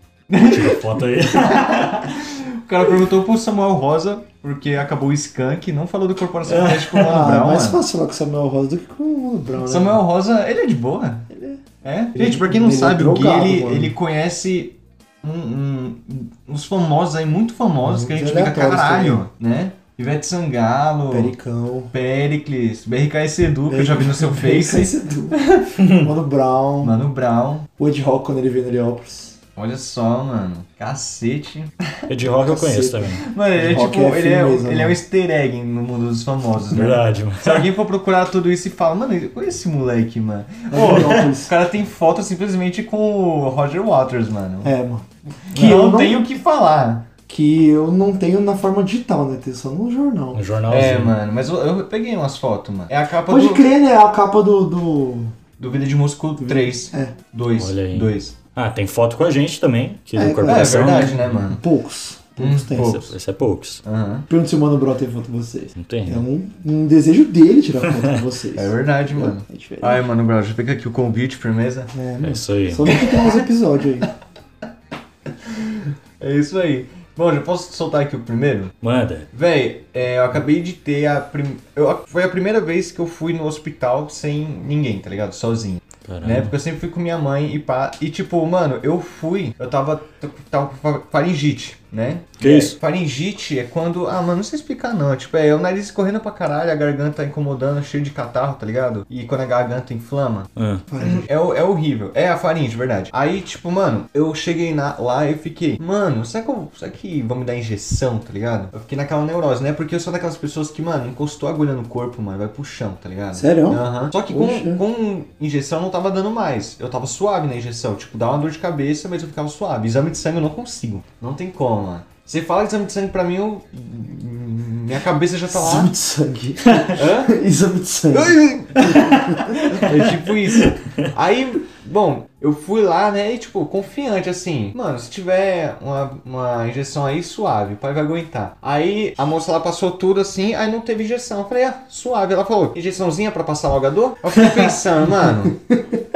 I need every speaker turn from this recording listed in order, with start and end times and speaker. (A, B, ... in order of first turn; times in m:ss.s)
0:00.3-0:00.8 A
0:00.4-0:02.2 B
0:02.1-0:07.8 A
0:06.4-0:07.2 B
0:07.0-0:10.0 C
0:09.6-0:11.2 A
0:11.3-0:11.6 C
0:11.8-0:21.3 A
0:12.2-0:13.9 C
0:17.8-0:19.2 C
0:21.1-0:21.9 C
0:21.9-0:25.8 A
0:23.7-0:27.0 C
0:25.8-0:26.0 B
0:26.8-0:27.7 A
0:27.8-0:29.4 C
0:29.6-0:32.0 A
0:32.1-0:33.2 B
0:32.4-0:35.0 C
0:33.2-0:44.7 A
0:36.7-0:37.6 B
0:40.7-0:41.5 C
0:40.9-0:41.2 B
0:44.6-0:46.2 C
0:45.4-0:47.1 A
0:47.3-0:50.4 C
0:50.3-0:51.1 B
0:50.7-0:53.7 A
0:53.3-0:55.4 C
0:55.6-0:58.4 A
0:56.4-0:57.1 C
0:57.5-1:01.2 B
1:00.1-1:03.0 C
1:00.4-1:01.6 A
1:02.4-1:03.1 A
1:02.8-1:03.8 B
1:03.8-1:04.3 A
1:04.3-1:10.1 C
1:05.8-1:06.2 B
1:08.6-1:11.9 A
1:11.9-1:14.1 C
1:12.2-1:12.9 B
1:12.8-1:13.4 A
1:15.5-1:18.7 A
1:18.8-1:19.3 B
1:19.3-1:40.5 A
1:26.0-1:26.5 B
1:32.4-1:32.7 B
1:40.6-1:40.8 B
1:40.9-1:41.3 C
1:41.0-2:05.9 A
1:53.3-1:54.8 C
2:05.5-2:09.6 C
2:06.9-2:07.3 A
2:08.1-2:09.0 A
2:09.0-2:10.6 B
2:09.7-2:25.6 A
2:25.5-2:26.0 C